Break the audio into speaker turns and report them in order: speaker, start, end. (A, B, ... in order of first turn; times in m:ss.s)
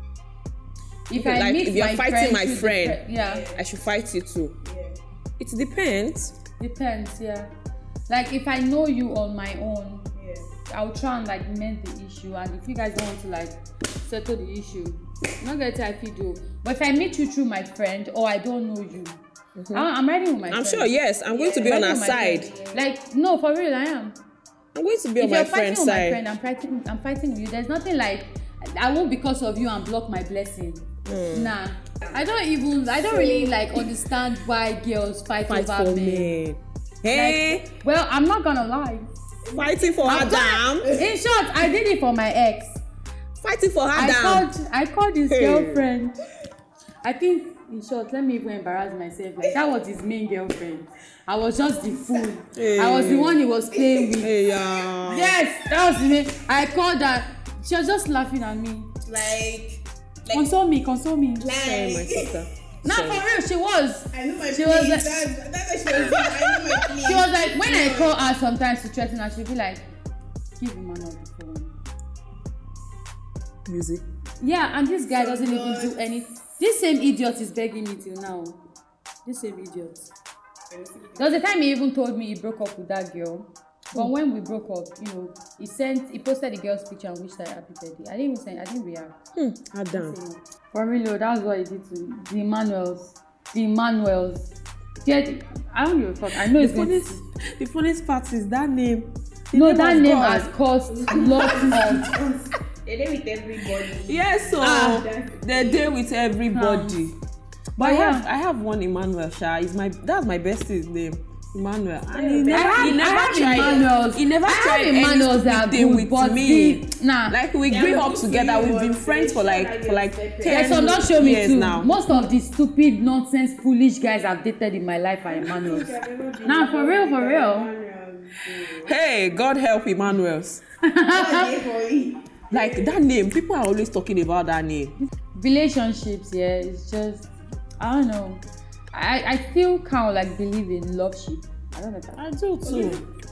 0:01.1-0:03.5 A
0:01.1-0:04.6 B
0:03.2-0:03.6 C
0:04.6-0:05.0 C
0:05.4-0:06.3 B
0:06.6-0:07.5 A
0:08.1-0:10.1 A
0:10.1-0:10.5 C
0:10.7-0:19.2 A
0:19.6-0:19.9 B
0:19.7-0:20.9 A
0:20.5-0:22.5 B
0:21.3-0:22.8 C
0:21.6-0:24.2 A
0:24.7-0:26.2 B
0:25.2-0:36.4 A
0:31.0-0:31.6 B
0:32.9-0:33.8 C
0:35.5-0:37.6 B
0:37.1-0:39.1 A
0:39.4-0:41.1 C
0:39.5-0:41.0 B
0:40.0-0:42.8 A
0:43.4-0:44.5 B
0:43.9-0:46.2 A
0:45.3-0:45.9 B
0:47.0-0:54.3 A
0:51.8-0:52.3 C
0:52.5-0:53.4 B
0:53.7-0:54.2 C
0:54.2-0:55.4 B
0:55.0-0:58.9 A
0:59.0-1:00.5 C
1:00.3-1:01.5 A
1:01.4-1:02.4 C
1:01.5-1:03.2 B
1:02.8-1:05.3 A
1:04.1-1:08.2 C
1:07.0-1:09.8 A
1:10.6-1:11.7 A
1:13.7-1:14.0 B
1:14.4-1:18.6 A
1:15.0-1:16.0 C
1:19.2-1:20.1 A
1:20.7-1:21.5 C
1:21.2-1:29.2 A
1:29.3-1:30.2 B
1:29.9-1:34.5 A
1:35.0-1:37.2 A
1:36.5-1:40.5 B
1:39.5-1:42.1 A
1:40.9-1:45.9 C
1:44.0-1:47.1 B
1:44.6-1:45.0 A
1:46.5-1:47.0 A
1:47.8-1:48.3 A
1:47.8-2:01.9 B
1:52.1-1:53.9 C
1:52.5-1:57.4 A
1:57.6-2:01.1 C
2:00.4-2:05.9 A
2:05.2-2:08.9 C
2:06.4-2:07.7 A
2:08.8-2:10.6 B
2:10.8-2:11.5 A
2:11.1-2:13.0 C
2:12.5-2:14.9 B
2:15.0-2:17.3 A
2:17.8-2:22.2 A
2:22.2-2:23.0 B
2:22.6-2:23.0 C